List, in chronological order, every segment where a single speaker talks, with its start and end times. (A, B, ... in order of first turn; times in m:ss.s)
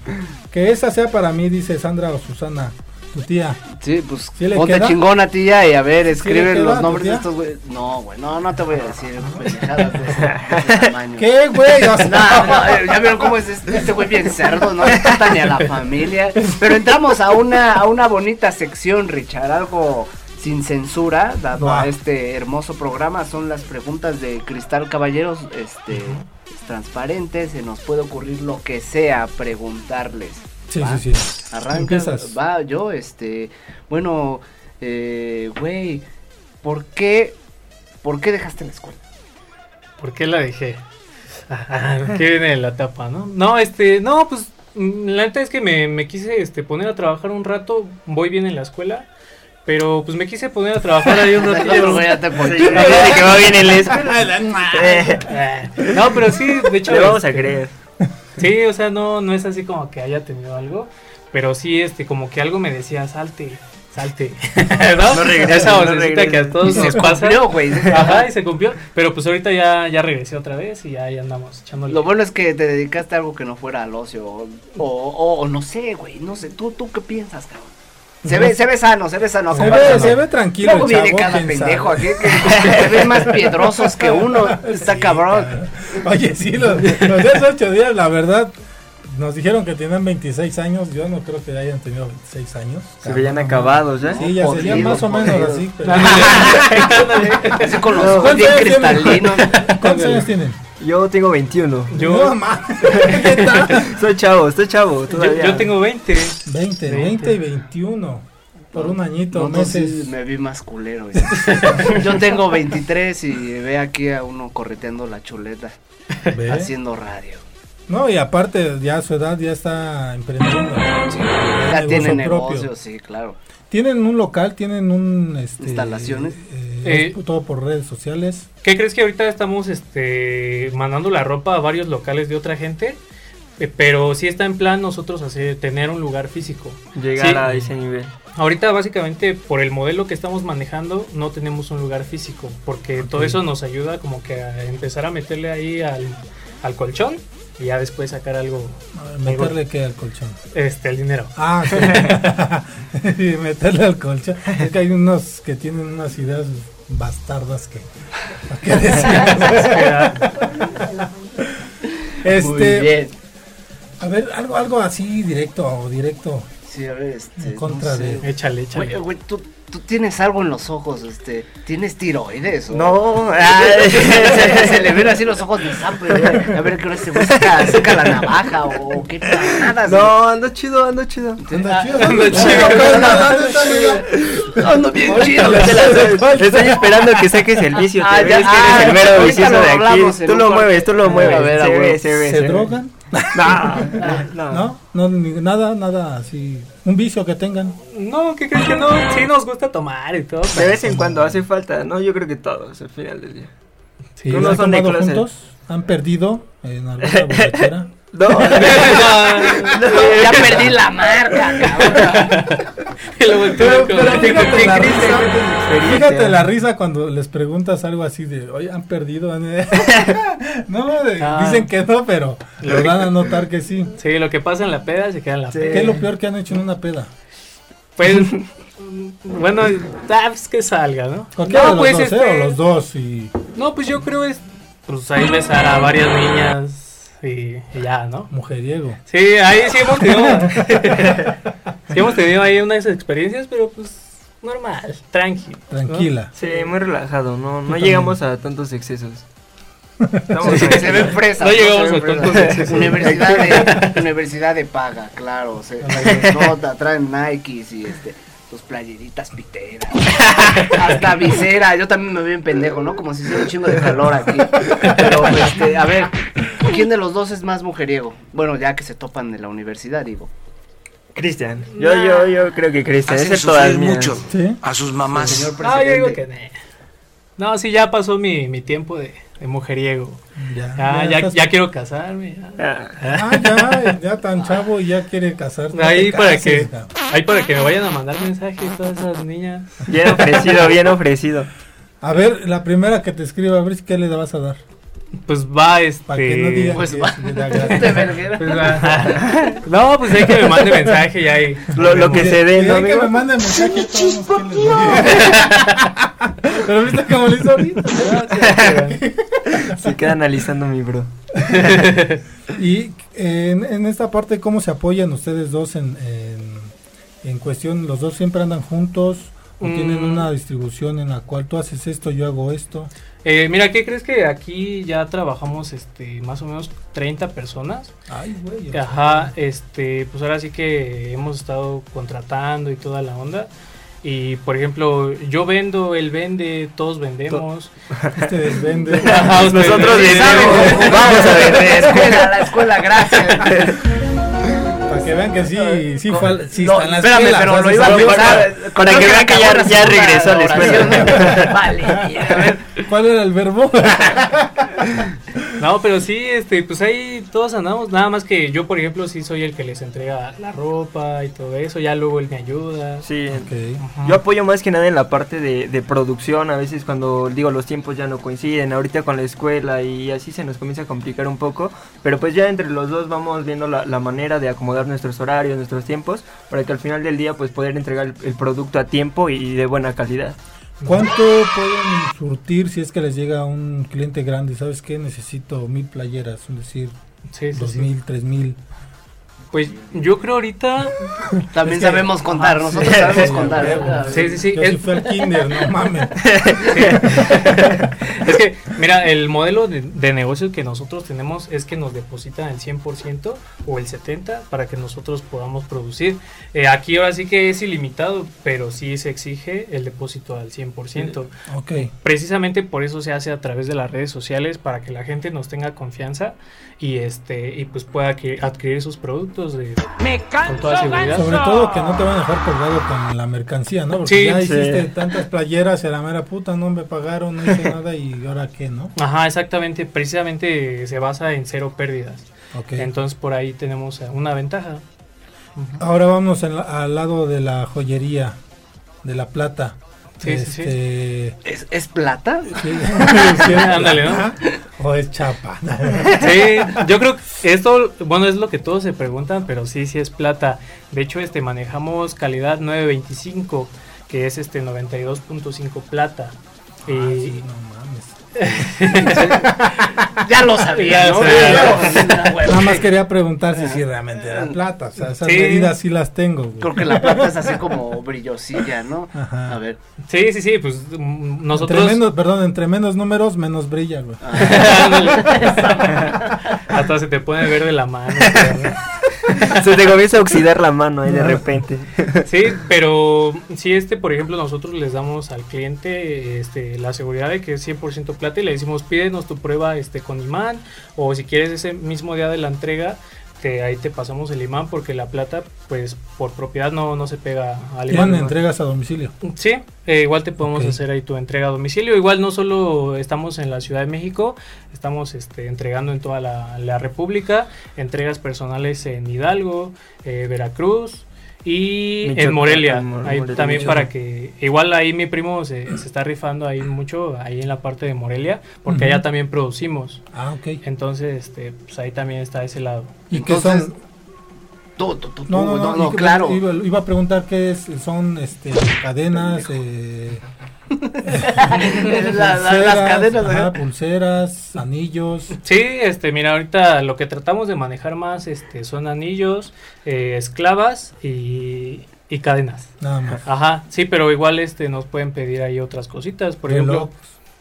0:00.5-0:03.6 A
0:03.8-0:11.3 B
0:04.4-0:05.0 A
0:06.1-0:07.2 A
0:09.2-0:09.5 A
0:10.2-0:10.9 C
0:11.2-0:13.9 A
0:12.0-0:36.0 B
0:14.8-0:15.1 A
0:16.5-0:16.7 A
0:21.5-0:21.9 A
0:25.9-0:26.2 D
0:30.7-0:32.3 A
0:36.6-0:37.4 B
0:38.0-0:39.0 B
0:40.0-0:40.8 D
0:41.5-0:49.1 D
0:49.6-0:52.1 D
0:51.4-0:53.5 B
0:52.4-0:54.1 C
0:52.7-0:53.2 D
0:52.8-0:55.2 A
0:54.7-0:55.3 C
0:55.2-0:57.4 D
0:56.8-0:57.7 C
0:58.4-1:12.1 D
1:05.1-1:07.0 C
1:07.0-1:08.3 B
1:11.9-1:17.7 B
1:18.2-1:25.5 B
1:18.2-1:18.5 A
1:19.5-1:20.1 D
1:19.5-1:22.8 A
1:23.4-1:36.9 A
1:33.0-1:34.6 C
1:34.0-1:36.7 B
1:35.8-1:37.8 D
1:37.3-1:39.5 B
1:37.9-1:38.8 C
1:38.0-1:40.6 A
1:39.4-1:40.3 D
1:40.8-1:41.9 C
1:41.9-1:42.4 D
1:41.9-1:43.9 A
1:42.9-1:43.7 D
1:43.7-1:45.7 C
1:45.1-1:47.4 D
1:46.4-1:50.1 A
1:48.7-1:55.8 B
1:51.2-1:51.9 A
1:51.4-1:51.9 D
1:56.3-1:56.7 A
1:56.5-1:57.4 B
1:57.9-2:02.7 A
2:01.0-2:03.4 B
2:03.7-2:08.5 A
2:05.6-2:06.4 B
2:06.8-2:07.2 D
2:08.6-2:13.0 D
2:13.6-2:17.5 D
2:17.0-2:18.1 C
2:18.3-2:29.5 D
2:23.0-2:23.4 A
2:28.9-2:30.4 A
2:30.5-2:31.9 D
2:31.4-2:37.8 A
2:38.5-2:41.7 A
2:39.4-2:40.2 D
2:42.2-2:42.9 A
2:42.2-2:43.1 B
2:44.0-2:46.5 A
2:46.6-3:00.1 B
2:47.4-2:48.2 A
2:48.2-2:49.0 D
2:52.7-2:55.2 C
2:56.1-2:56.6 C
2:57.2-2:58.0 C
2:59.8-3:01.4 C
3:01.4-3:06.0 B
3:01.5-3:07.6 A
3:02.0-3:03.9 D
3:05.4-3:12.7 C
3:08.0-3:12.0 B
3:12.2-3:17.8 A
3:13.3-3:14.7 C
3:14.0-3:14.2 B
3:17.9-3:20.8 D
3:20.5-3:23.5 C
3:20.8-3:21.3 A
3:24.2-3:24.6 D
3:24.2-3:27.9 A
3:24.3-3:25.2 C
3:27.0-3:30.7 C
3:28.5-3:30.7 D
3:29.7-3:32.4 B
3:31.8-3:32.6 D
3:33.2-3:35.3 D
3:33.4-3:43.9 A
3:35.6-3:36.4 C
3:41.2-3:41.7 D
3:42.6-3:43.0 D
3:44.0-3:46.0 D
3:45.5-3:46.0 C
3:45.7-3:47.1 A
3:48.0-3:52.6 D
3:51.4-3:53.3 A
3:53.6-3:58.3 D
3:58.3-3:59.0 A
3:59.1-4:01.3 D
4:00.0-4:00.9 A
4:01.9-4:06.6 D
4:05.7-4:06.3 A
4:06.4-4:09.2 C
4:07.7-4:08.2 A
4:10.0-4:10.4 A
4:10.3-4:11.2 C
4:10.4-4:30.3 B
4:10.4-4:14.0 D
4:13.2-4:13.6 A
4:15.9-4:16.2 D
4:31.1-4:34.2 C
4:31.7-4:32.4 D
4:33.2-4:35.5 E
4:34.3-4:34.6 A
4:35.1-4:36.2 B
4:35.6-4:36.6 D
4:37.4-4:40.2 D
4:40.4-4:41.5 A
4:40.8-4:43.9 D
4:42.6-4:43.0 C
4:43.1-4:46.9 A
4:45.7-4:50.4 D
4:49.9-4:51.5 C
4:52.0-4:54.6 A
4:55.3-4:56.8 D
4:56.1-4:58.1 A
4:56.8-4:59.5 B
4:58.4-5:02.3 D
5:01.7-5:03.2 C
5:01.8-5:10.1 A
5:05.2-5:05.5 D
5:07.8-5:09.0 D
5:08.4-5:08.7 C
5:09.5-5:11.1 C
5:11.5-5:12.2 D
5:12.5-5:22.9 A
5:19.6-5:20.3 D
5:23.2-5:27.9 D
5:28.1-5:29.3 A
5:28.7-5:33.5 D
5:34.0-5:37.7 D
5:38.2-5:42.1 A
5:39.0-5:41.0 D
5:39.1-5:43.7 C
5:40.0-5:43.8 B
5:44.8-5:48.5 A
5:45.6-5:52.7 B
5:47.7-5:51.5 C
5:50.9-5:52.2 A
5:52.7-5:55.4 A
5:55.6-6:03.0 D
6:03.0-6:03.5 C
6:03.3-6:03.8 A
6:03.8-6:04.2 D
6:04.0-6:20.4 C
6:20.8-6:27.0 A
6:27.3-6:27.9 D
6:27.5-6:28.6 A
6:29.5-6:31.1 D
6:31.5-6:34.3 B
6:31.7-6:35.1 D
6:32.8-6:33.5 C
6:32.9-6:36.3 A
6:36.2-6:37.0 C
6:36.7-7:01.4 D
6:37.0-6:37.4 A
6:51.5-6:51.9 A
7:01.1-7:08.9 A
7:04.0-7:04.4 D
7:04.4-7:05.0 C
7:09.0-7:14.8 D
7:12.5-7:12.9 A
7:15.6-7:15.8 D
7:15.8-7:18.4 A
7:19.0-7:21.4 A
7:20.2-7:20.7 D
7:21.4-7:23.5 B
7:22.6-7:26.8 A
7:23.3-7:24.3 D
7:26.2-7:36.4 D
7:36.8-7:40.2 A
7:36.9-7:37.4 D
7:38.4-7:39.5 D
7:40.2-7:42.9 B
7:40.7-7:42.0 D
7:41.2-7:47.5 A
7:43.6-7:44.5 B
7:45.2-7:45.7 D
7:46.6-7:49.8 B
7:49.1-7:49.6 A
7:50.1-7:52.0 D
7:51.5-7:55.5 A
7:54.2-7:56.3 B
7:54.4-7:58.8 D
7:59.3-8:02.2 C
8:01.0-8:01.4 A
8:02.2-8:18.3 D
8:17.9-8:19.1 A
8:19.2-8:40.0 D
8:20.4-8:20.8 A
8:32.0-8:33.8 C
8:33.5-8:33.9 A
8:38.6-8:39.0 A
8:40.1-8:40.6 A
8:40.6-8:43.0 D
8:43.1-8:43.8 A
8:43.1-8:43.7 B
8:44.8-8:46.4 B
8:45.3-8:50.2 A
8:49.1-8:49.5 B
8:50.8-8:53.5 B
8:51.0-8:55.3 A
8:55.4-9:02.7 D
9:02.8-9:03.2 A
9:03.2-9:06.9 D
9:06.4-9:07.1 A